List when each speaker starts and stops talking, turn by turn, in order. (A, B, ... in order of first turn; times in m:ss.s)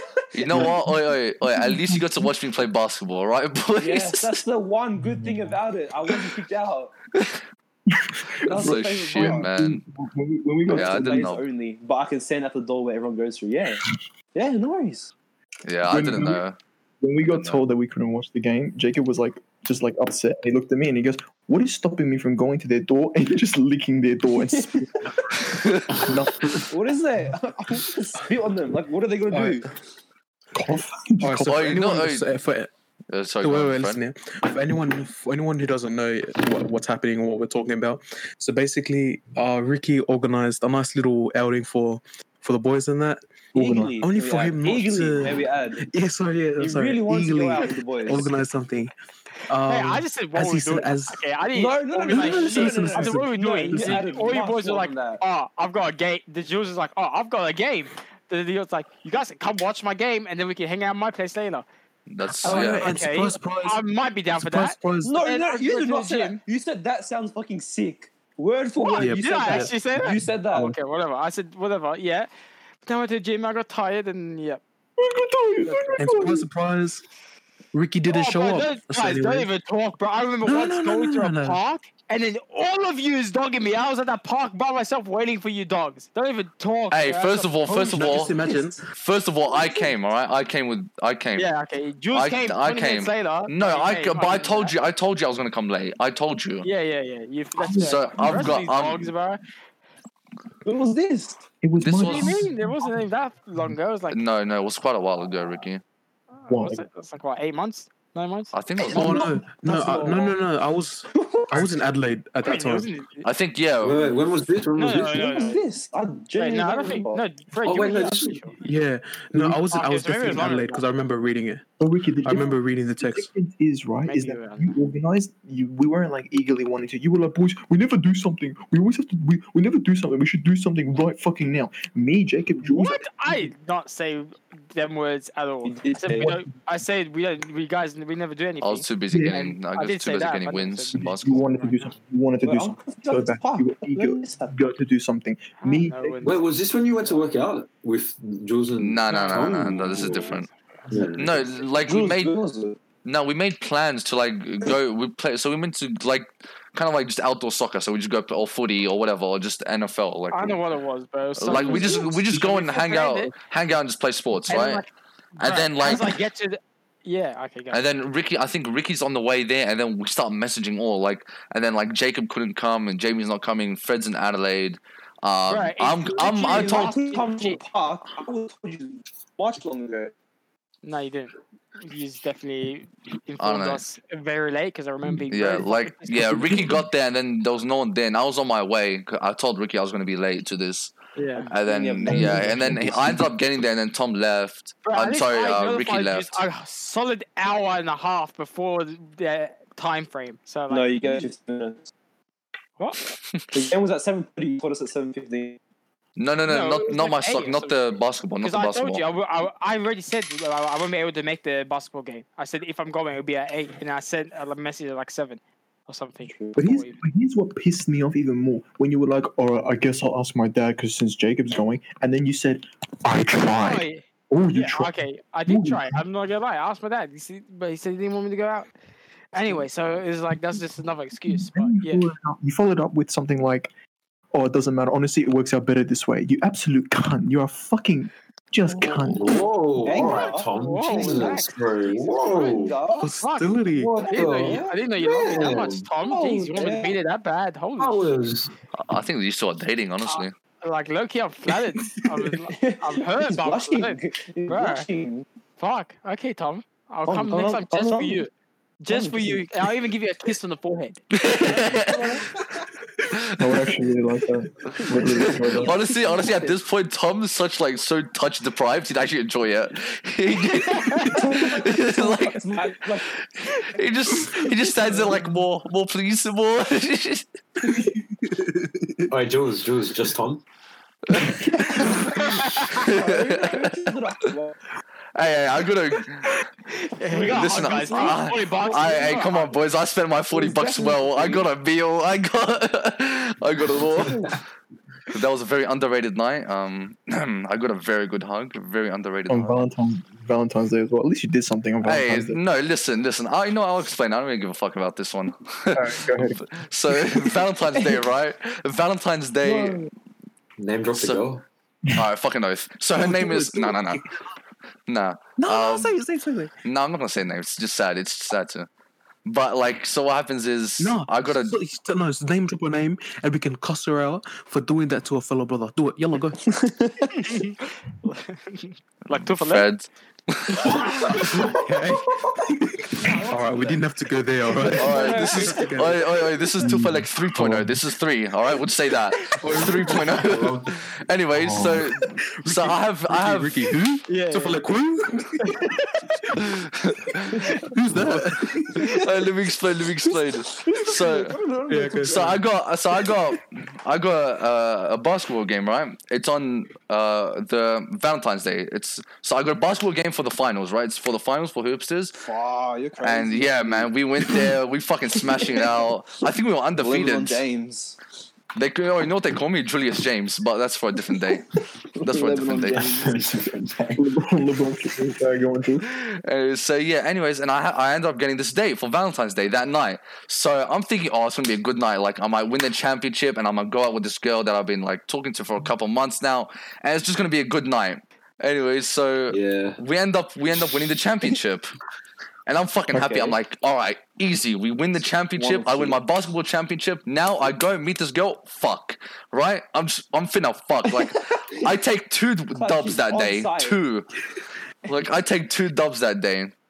0:00.3-0:04.4 A
0:00.4-0:00.7 B
0:00.5-0:02.3 C
0:03.8-0:06.9 B
0:07.9-0:11.3 C
0:08.4-0:09.8 A
0:08.5-0:09.5 B
0:10.7-0:15.1 B
0:10.7-0:11.4 A
0:15.6-0:16.6 A
0:15.9-0:16.4 C
0:17.0-0:25.1 C
0:17.3-0:17.6 A
0:24.6-0:24.8 B
0:25.5-0:25.9 A
0:25.9-0:26.6 C
0:26.7-0:29.7 B
0:29.3-0:29.6 D
0:30.6-0:31.7 C
0:31.2-0:32.7 D
0:31.4-0:32.3 A
0:33.1-0:34.0 A
0:33.4-0:43.3 D
0:43.5-0:44.0 C
0:43.6-0:45.8 B
0:44.0-0:48.9 D
0:46.6-0:48.3 B
0:49.5-0:51.2 D
0:49.7-1:01.7 E
0:51.5-0:55.2 B
0:52.1-0:54.3 D
1:02.1-1:02.9 A
1:02.3-1:03.8 D
1:02.4-1:06.4 E
1:04.3-1:05.2 D
1:05.0-1:10.8 B
1:08.8-1:12.3 E
1:09.0-1:09.8 D
1:12.8-1:14.6 E
1:15.0-1:16.4 C
1:15.6-1:16.2 E
1:16.0-1:17.0 D
1:17.7-1:19.5 D
1:18.1-1:27.5 E
1:20.4-1:21.6 D
1:26.9-1:28.4 A
1:27.7-1:28.9 D
1:28.9-1:31.5 A
1:31.4-1:34.8 E
1:32.1-1:36.7 A
1:36.6-1:39.4 E
1:37.6-1:38.5 C
1:37.8-1:39.1 A
1:40.6-1:41.4 B
1:41.6-1:43.0 C
1:41.8-1:42.4 A
1:42.0-1:44.2 E
1:44.1-1:45.8 A
1:46.4-1:50.2 E
1:46.5-1:46.9 C
1:48.5-1:49.2 A
1:48.9-1:50.4 B
1:48.9-1:52.9 D
1:51.1-1:51.8 B
1:52.4-1:53.3 E
1:53.2-1:54.2 A
1:53.8-1:55.2 F
1:54.8-1:55.6 E
1:55.0-1:57.2 B
1:56.4-1:58.6 E
1:57.6-1:58.5 F
1:58.6-2:01.7 D
1:59.7-2:00.8 E
2:01.8-2:13.5 C
2:02.2-2:03.3 D
2:04.1-2:04.7 E
2:12.6-2:21.8 E
2:15.6-2:16.4 B
2:16.2-2:16.4 C
2:18.6-2:21.4 A
2:19.1-2:19.4 C
2:21.0-2:26.2 C
2:22.4-2:24.5 B
2:25.6-2:26.4 E
2:26.2-2:30.4 F
2:28.8-2:30.5 A
2:29.1-2:30.5 E
2:30.9-2:31.5 F
2:31.2-2:32.4 A
2:31.8-2:32.8 B
2:33.0-2:40.6 A
2:40.3-2:43.3 E
2:41.4-2:44.8 A
2:41.5-2:42.1 B
2:44.5-2:47.8 E
2:45.4-2:46.2 A
2:47.7-2:57.0 A
2:55.5-2:57.6 E
2:56.3-3:00.1 B
3:00.8-3:06.7 E
3:03.4-3:03.8 A
3:05.3-3:10.9 A
3:06.3-3:06.8 C
3:11.2-3:11.5 E
3:11.4-3:13.2 B
3:11.5-3:16.4 A
3:12.1-3:13.1 C
3:14.8-3:21.3 E
3:20.7-3:21.9 B
3:23.5-3:25.6 B
3:26.2-3:29.0 A
3:26.5-3:27.8 E
3:28.4-3:37.0 E
3:36.2-3:36.6 B
3:36.6-3:46.0 C
3:43.6-3:48.7 E
3:49.3-3:52.1 E
3:51.2-3:53.7 C
3:54.3-3:59.4 C
3:58.7-4:03.1 B
3:59.1-4:02.8 F
4:00.6-4:02.0 E
4:03.0-4:03.9 D
4:03.2-4:08.1 E
4:03.8-4:05.9 F
4:04.2-4:07.0 B
4:07.8-4:08.5 F
4:08.8-4:10.3 A
4:10.1-4:14.9 E
4:12.5-4:15.3 B
4:15.6-4:18.3 E
4:17.1-4:18.3 B
4:18.8-4:22.2 E
4:18.9-4:19.6 B
4:21.2-4:22.2 A
4:21.5-4:22.6 B
4:23.1-4:23.7 A
4:23.4-4:25.8 C
4:24.7-4:26.5 B
4:25.1-4:37.3 A
4:30.7-4:31.1 E
4:31.0-4:33.1 B
4:34.8-4:35.2 B
4:38.2-4:39.1 D
4:39.1-4:40.4 F
4:41.1-4:43.9 A
4:41.4-4:44.6 B
4:42.3-4:42.9 E
4:45.2-4:46.4 A
4:46.7-4:49.6 E
4:47.1-4:48.3 B
4:47.3-4:54.4 A
4:50.3-4:51.5 B
4:53.9-4:54.4 B
4:55.1-4:59.6 A
4:59.3-5:02.4 C
5:01.8-5:09.9 A
5:05.7-5:07.2 C
5:09.4-5:09.9 B
5:10.6-5:11.4 F
5:10.9-5:11.3 A
5:11.9-5:14.0 A
5:13.0-5:14.2 D
5:14.9-5:16.0 A
5:15.4-5:16.5 D
5:16.6-5:18.7 A
5:19.2-5:21.6 A
5:20.8-5:26.4 D
5:26.4-5:27.3 B
5:27.2-5:29.7 E
5:29.1-5:30.8 A
5:30.6-5:31.6 F
5:31.2-5:36.0 D
5:33.0-5:33.8 B
5:34.6-5:35.9 B
5:34.8-5:43.7 A
5:36.6-5:37.7 C
5:39.3-5:40.2 D
5:40.0-5:40.7 F
5:41.3-5:41.8 C
5:42.2-5:45.5 D
5:44.1-5:44.6 E
5:45.4-5:45.9 E
5:46.3-5:51.4 A
5:47.7-5:49.0 D
5:50.6-5:52.4 B
5:51.7-5:52.4 D
5:52.0-6:02.2 A
6:02.1-6:04.5 B
6:03.0-6:07.4 A
6:05.2-6:05.9 B
6:06.8-6:08.0 B
6:08.6-6:11.4 A
6:12.0-6:14.0 B
6:12.0-6:13.1 A
6:12.7-6:13.8 F
6:14.0-6:15.9 C
6:15.9-6:31.7 A
6:29.3-6:29.8 F
6:32.5-6:44.1 A
6:32.9-6:33.4 B
6:35.4-6:36.0 B
6:41.0-6:41.7 B
6:42.6-6:43.8 B
6:44.9-6:46.5 A